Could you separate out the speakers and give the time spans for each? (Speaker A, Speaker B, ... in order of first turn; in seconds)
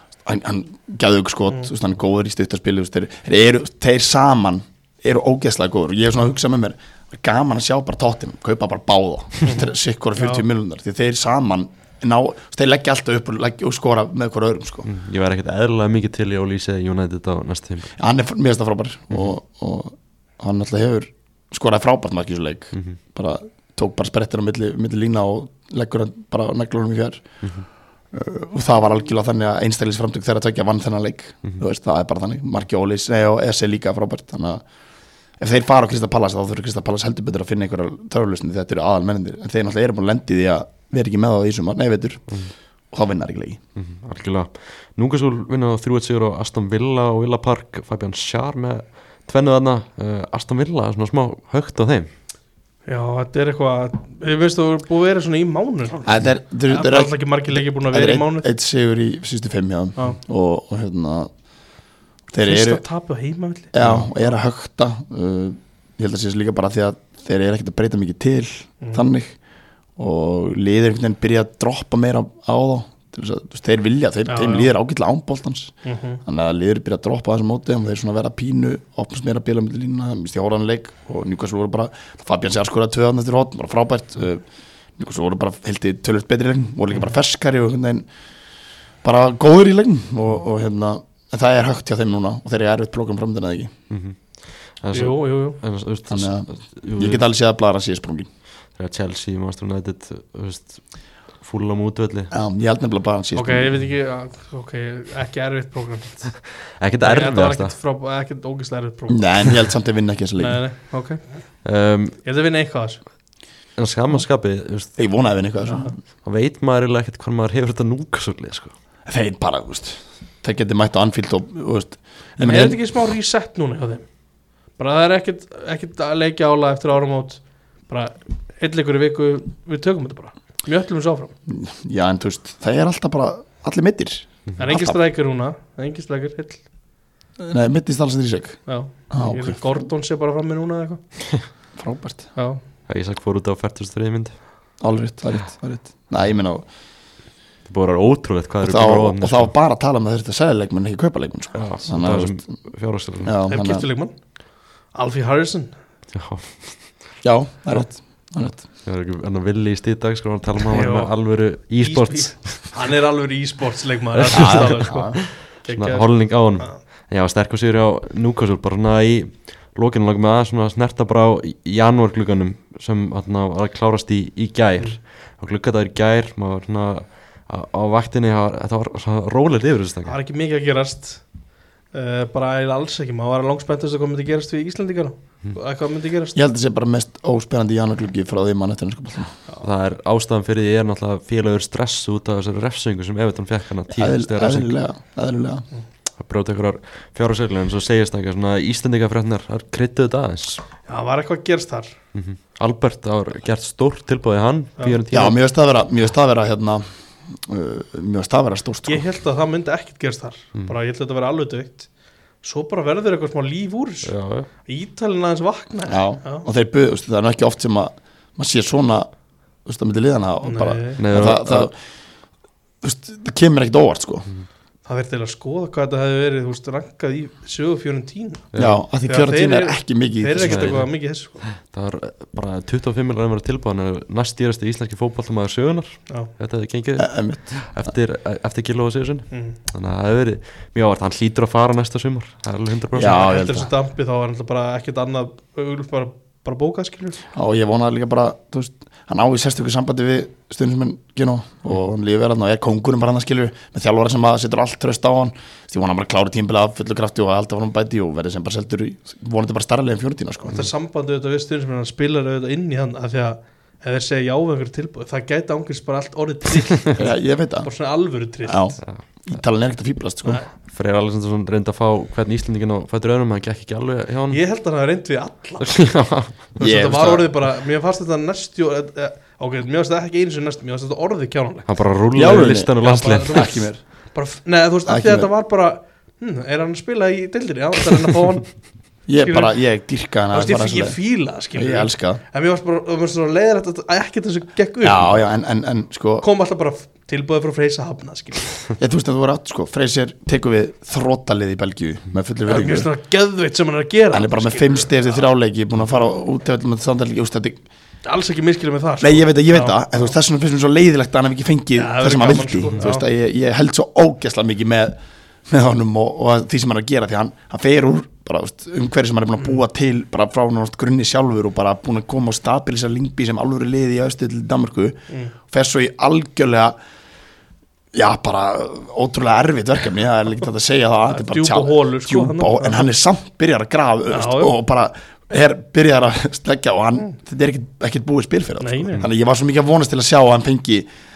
Speaker A: 0.2-14.9, 18.0-27.2, 28.1-34.6, 35.4-42.2, 42.9-43.6, 56.1-61.3, 62.3-62.8, 63.7-69.3, 70.0-75.7, 76.2-84.4, 85.0-88.1, 89.0-93.7, 96.1-98.3, 102.3-103.8, 109.1-110.6, 115.0-116.0, 119.1-122.8, 131.5-135.0, 137.4-139.6, 141.8-142.3, 144.8-146.7, 148.6-152.4, 153.2-153.9, 157.2-158.6, 164.3-165.2, 186.3-189.3, 193.9-195.7, 205.1-209.1, 215.9-219.1, 219.7-221.8, 222.8-224.3, 228.6-230.7, 237.0-237.7, 242.9-243.7, 247.3-260.6, 266.9-267.7, 268.5-270.4, 276.6-277.3, 282.1-282.7, 283.3-283.8, 284.9-285.3, 289.1-291.0, 291.5-292.2, 294.8-296.3, 298.8-302.9, 304.1-307.6, 309.0-326.7, 327.9-340.9
Speaker B: 9.4-10.4, 52.9-58.5, 62.4-64.3, 74.3-74.7, 75.8-76.2, 94.9-95.6, 103.4-106.5, 107.0-109.6, 110.4-111.2, 112.2-113.0, 122.4-124.1, 124.8-131.3, 134.6-136.6, 138.7-141.0, 142.4-142.6, 153.5-154.2, 154.9-155.7, 160.7-161.1, 161.8-166.8, 180.1-181.3, 181.9-186.4, 200.9-201.9, 208.9-211.9, 212.4-216.5, 220.4-221.0, 224.9-228.5, 229.1-231.4, 243.1-247.2, 260.5-267.1, 267.6-268.8, 274.3-275.8, 276.6-281.7, 282.8-288.6, 289.2-289.6, 290.3-295.2, 296.2-298.6, 302.5-305.3, 308.1-310.0, 311.8-313.1, 331.1-332.9, 334.1-334.5, 338.6-339.1
Speaker C: 14.9-17.9, 22.7-23.0, 43.8-52.1, 63.8-64.1, 93.9-94.2, 94.8-97.2, 98.8-102.3, 106.8-107.7, 111.6-112.2, 113.8-115.0, 116.2-118.7, 142.9-144.4, 147.7-149.5, 151.6-153.4, 156.1-156.9, 158.8-162.8, 164.2-180.2, 189.6-194.7, 196.2-200.6, 202.2-205.4, 214.1-214.5, 221.0-221.7, 228.5-228.8, 230.4-230.9, 231.5-243.3, 270.7-274.4, 275.6-276.4, 281.7-283.6